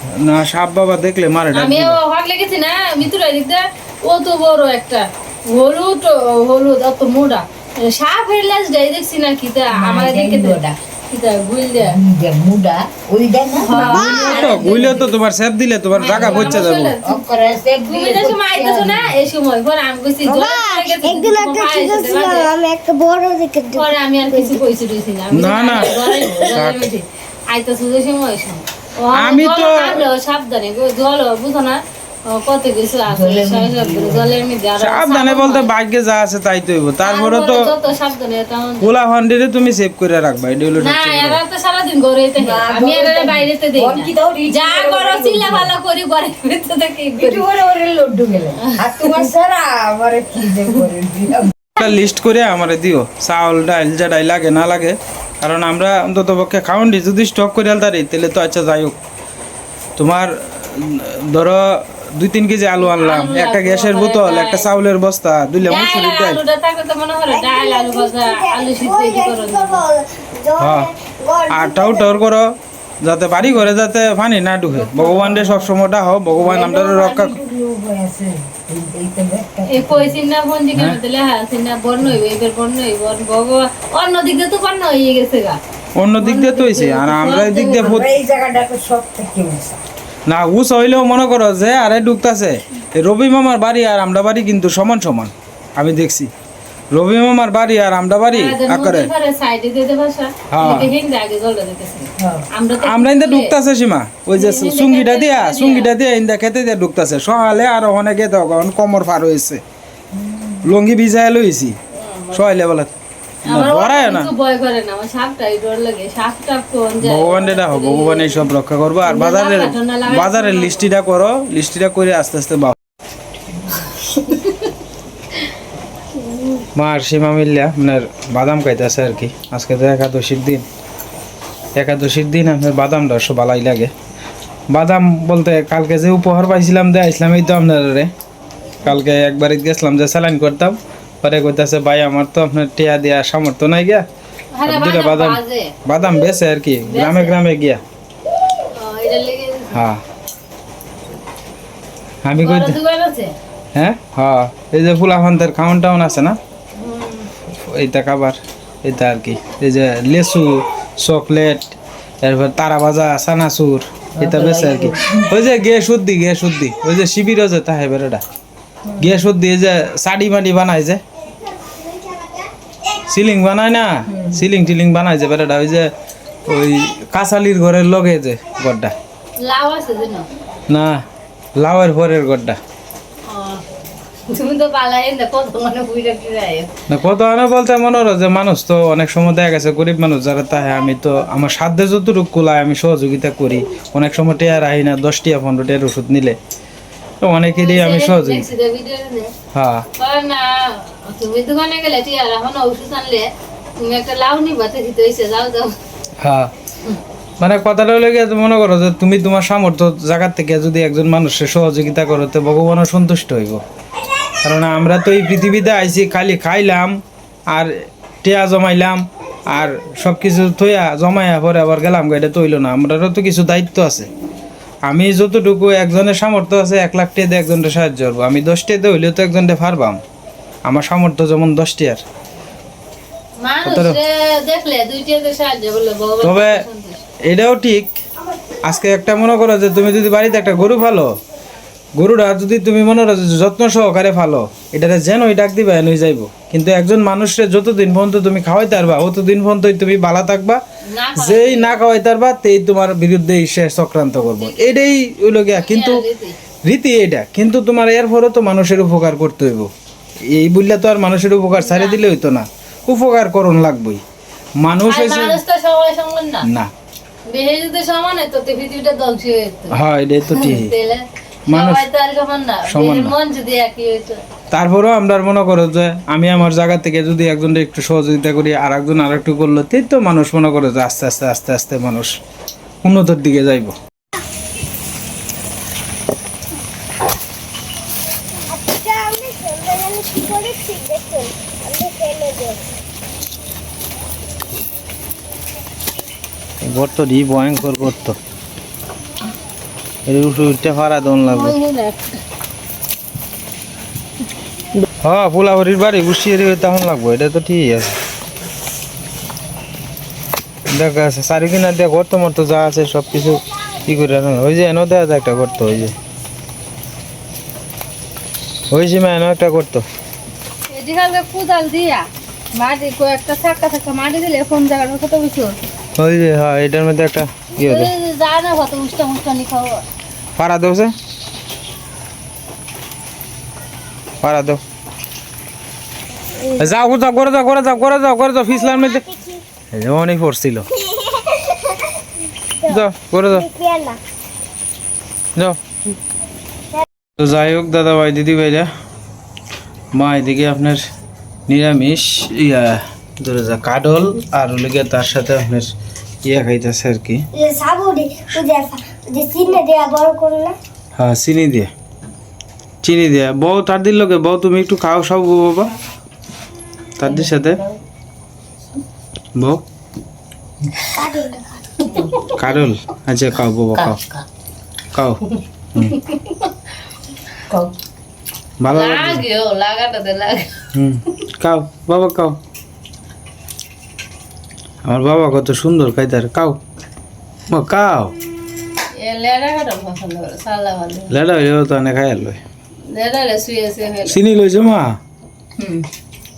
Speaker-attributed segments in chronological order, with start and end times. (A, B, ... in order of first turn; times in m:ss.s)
0:00.1-0:02.0 A
0:01.5-0:12.0 B
0:09.8-0:10.7 C
0:11.8-0:15.1 C
0:13.6-0:15.1 B
0:13.7-0:16.9 A
0:13.8-0:14.4 D
0:16.0-0:17.3 B
0:16.1-0:19.2 C
0:17.9-0:22.5 B
0:20.3-0:24.6 D
0:23.7-0:35.7 B
0:25.3-0:26.8 A
0:29.1-0:30.1 A
0:33.1-0:34.4 C
0:34.8-0:37.7 A
0:37.0-0:38.9 B
0:38.8-0:41.4 A
0:40.8-0:47.5 B
0:42.4-0:45.8 C
0:47.2-0:51.5 C
0:48.7-0:49.3 B
0:51.8-0:59.0 A
1:00.0-1:06.4 A
1:02.8-1:04.7 B
1:05.6-1:09.8 B
1:07.3-1:12.2 D
1:10.6-1:10.9 A
1:11.5-1:17.4 A
1:14.7-1:15.8 C
1:16.4-1:20.2 C
1:19.7-1:25.6 B
1:26.0-1:28.1 A
1:26.2-1:28.0 B
1:27.6-1:29.8 C
1:30.3-1:36.3 A
1:36.9-1:39.1 A
1:38.3-1:43.6 B
1:40.5-1:40.9 A
1:42.2-1:42.5 C
1:42.8-1:49.6 A
1:44.4-1:45.9 B
1:50.1-1:50.7 C
1:50.6-1:51.8 A
1:51.9-1:52.4 B
1:52.3-1:52.9 A
1:53.4-1:54.3 A
1:53.5-1:58.5 B
1:57.0-2:02.8 A
1:59.0-2:00.9 B
2:04.2-2:04.7 B
2:06.3-2:06.6 B
2:06.8-2:10.6 A
2:11.8-2:13.9 A
2:14.7-2:18.1 A
2:18.8-2:24.0 A
2:24.6-2:25.7 B
2:24.6-2:27.8 A
2:26.9-2:27.4 B
2:28.7-2:29.8 B
2:29.7-2:30.0 A
2:32.2-2:32.8 A
2:32.4-2:33.3 B
2:33.8-2:36.4 A
2:36.8-2:37.3 B
2:37.5-2:48.2 A
2:44.2-2:45.3 C
2:49.0-2:51.0 A
2:53.1-2:55.9 A
2:56.5-2:58.9 A
2:59.4-3:00.3 B
3:00.7-3:01.0 A
3:01.6-3:02.6 A
3:03.3-3:03.6 B
3:04.2-3:06.7 B
3:06.9-3:16.4 A
3:17.2-3:18.5 A
3:17.6-3:19.3 B
3:19.5-3:19.9 A
3:20.0-3:25.8 B
3:26.2-3:26.5 A
3:27.4-3:33.6 A
3:34.4-3:37.0 A
3:38.2-3:44.1 A
3:44.9-3:50.0 A
3:50.6-3:52.0 A
3:53.4-3:57.0 B
3:53.6-3:54.0 A
3:56.2-3:56.6 A
3:57.3-3:58.0 A
3:58.6-4:01.2 A
4:02.0-4:10.6 A
4:10.9-4:11.9 B
4:11.2-4:16.0 A
4:14.2-4:15.0 B
4:15.5-4:16.4 B
4:16.7-4:19.7 A
4:20.3-4:24.0 A
4:21.5-4:22.0 B
4:24.6-4:25.4 A
4:24.9-4:26.5 B
4:26.4-4:26.7 A
4:27.3-4:34.2 B
4:29.7-4:30.7 A
4:31.5-4:31.9 A
4:32.7-4:33.2 A
4:34.5-4:42.1 A
4:42.8-4:43.8 A
4:48.5-4:52.7 D
4:56.6-4:58.2 A
5:00.1-5:01.6 A
5:01.2-5:02.1 B
5:05.0-5:08.0 A
5:10.7-5:16.0 A
5:18.7-5:19.8 A
5:20.7-5:25.6 B
5:26.0-5:27.9 A
5:27.6-5:29.8 B
5:30.4-5:30.9 A
5:34.2-5:34.6 A
5:36.6-5:39.1 A
5:38.5-5:39.4 D
5:39.7-5:40.7 A
5:41.0-5:41.7 D
5:42.7-5:43.5 A
5:43.3-5:44.0 D
5:47.2-5:48.7 A
5:49.9-5:50.8 A
5:51.5-5:55.7 A
5:56.2-5:57.3 A
5:57.3-6:00.6 D
6:01.0-6:01.7 A
6:02.8-6:05.7 A
6:07.0-6:07.6 A
6:07.0-6:07.8 C
6:09.4-6:09.6 A
6:10.9-6:11.5 D
6:12.3-6:14.0 A
6:13.8-6:14.2 C
6:14.9-6:15.2 A
6:15.9-6:16.5 B
6:18.6-6:19.2 A
6:18.7-6:20.7 B
6:20.7-6:22.4 A
6:24.8-6:26.6 A
6:27.5-6:28.1 A
6:29.0-6:31.1 B
6:31.1-6:32.4 A
6:32.9-6:34.2 B
6:34.0-6:35.0 A
6:35.6-6:35.8 B